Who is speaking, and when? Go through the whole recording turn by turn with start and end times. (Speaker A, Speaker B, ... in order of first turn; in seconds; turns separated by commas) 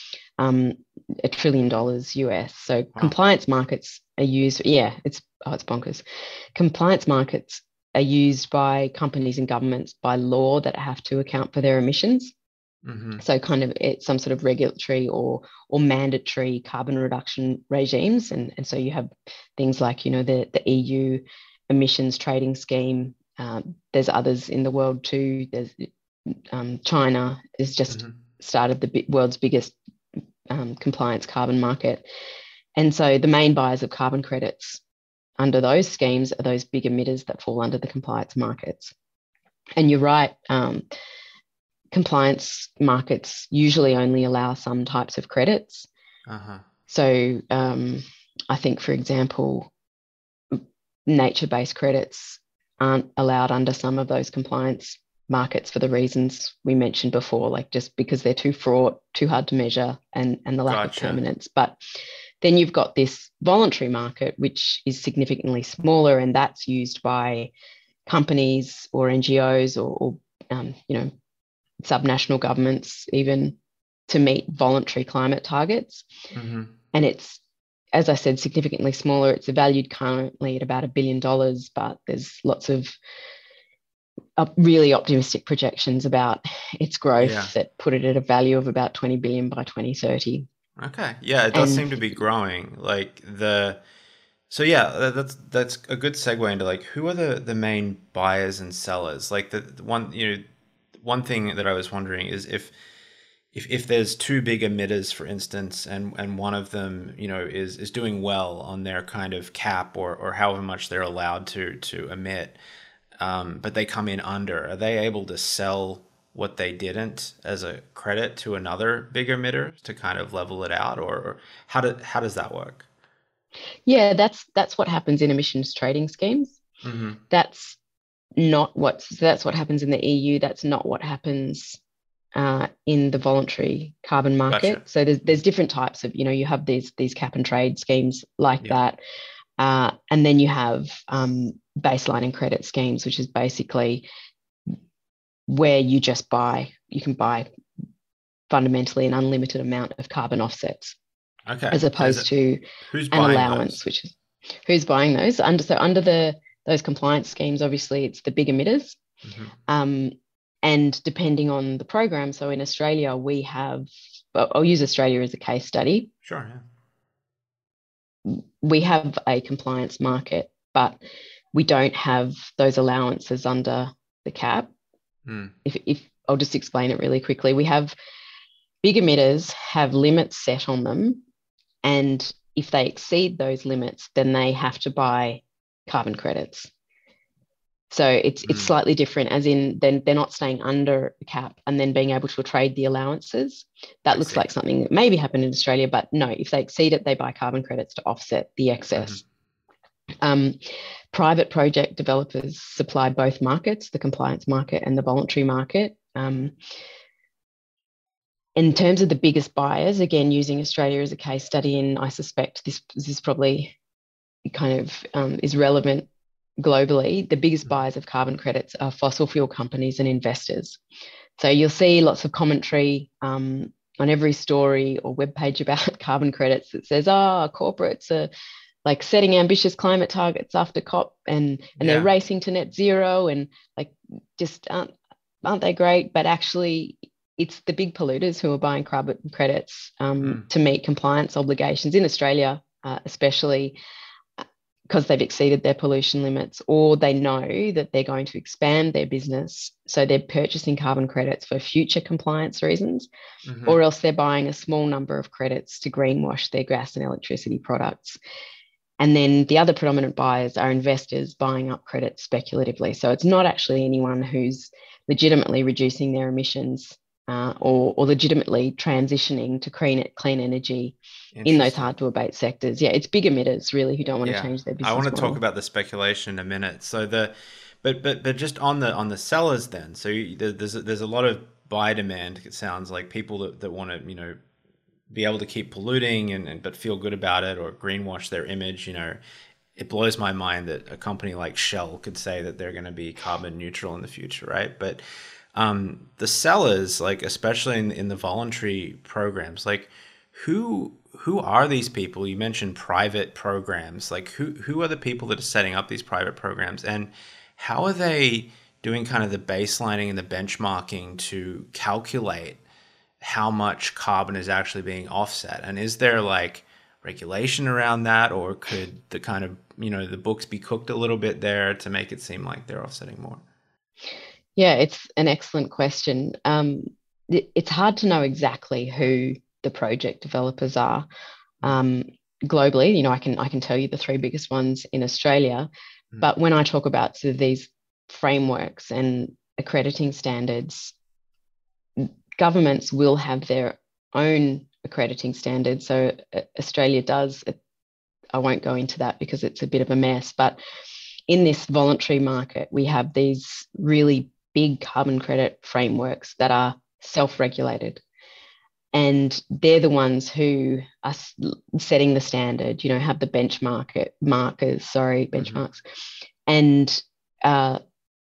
Speaker A: 0.4-6.0, Speaker A: 6.5-12.3, Speaker B: 12.8-13.2, Speaker A: 13.2-29.8, Speaker A: 30.5-32.1, Speaker A: 32.8-34.8, Speaker A: 35.4-38.9, Speaker A: 39.8-40.8, Speaker A: 41.9-45.9, Speaker B: 46.3-46.6, Speaker A: 46.9-49.7, Speaker A: 50.5-61.8, Speaker B: 60.7-61.2, Speaker A: 62.4-67.5, Speaker A: 68.1-71.1, Speaker A: 71.8-73.6, Speaker A: 74.1-76.1, Speaker B: 76.3-76.7, Speaker A: 76.9-77.4, Speaker A: 77.9-83.0, Speaker A: 84.4-90.5, Speaker B: 87.2-87.5, Speaker B: 90.8-93.8, Speaker A: 91.5-92.0, Speaker B: 94.5-102.7, Speaker B: 103.5-112.6, Speaker B: 113.2-122.9, Speaker A: 123.9-126.6, Speaker B: 126.8-127.2, Speaker A: 127.3-127.8, Speaker A: 128.4-131.8, Speaker A: 132.3-139.0, Speaker B: 134.5-134.8, Speaker A: 139.6-144.1, Speaker A: 145.5-147.5, Speaker A: 148.5-151.0, Speaker B: 151.5-152.3, Speaker A: 151.7-154.2, Speaker B: 152.9-153.8, Speaker A: 154.7-159.0, Speaker B: 159.2-159.5, Speaker A: 159.7-166.1, Speaker B: 166.2-166.6, Speaker A: 168.3-171.0, Speaker A: 171.5-174.7, Speaker B: 175.3-175.5, Speaker A: 175.7-177.9, Speaker A: 178.8-181.2, Speaker A: 181.8-186.7, Speaker A: 187.9-199.2, Speaker B: 188.5-188.7, Speaker B: 194.1-194.4, Speaker B: 199.0-199.2, Speaker A: 200.2-200.6, Speaker A: 201.1-206.5, Speaker A: 208.6-213.7, Speaker A: 214.5-216.1, Speaker A: 216.6-220.8, Speaker A: 221.4-228.3, Speaker A: 228.8-234.9, Speaker B: 231.8-232.1, Speaker A: 235.4-243.8, Speaker A: 244.9-253.1, Speaker B: 253.5-253.8, Speaker A: 253.7-258.2, Speaker A: 259.0-275.4, Speaker B: 271.3-271.9, Speaker B: 274.2-284.4, Speaker B: 285.1-289.2, Speaker B: 289.8-295.0, Speaker B: 295.5-312.6, Speaker B: 313.2-323.4, Speaker A: 324.6-331.1, Speaker A: 331.6-335.7, Speaker A: 336.2-340.9, Speaker A: 342.0-347.6, Speaker A: 348.3-350.6, Speaker A: 351.3-358.0, Speaker A: 358.9-365.8, Speaker B: 365.4-365.6, Speaker A: 366.5-367.8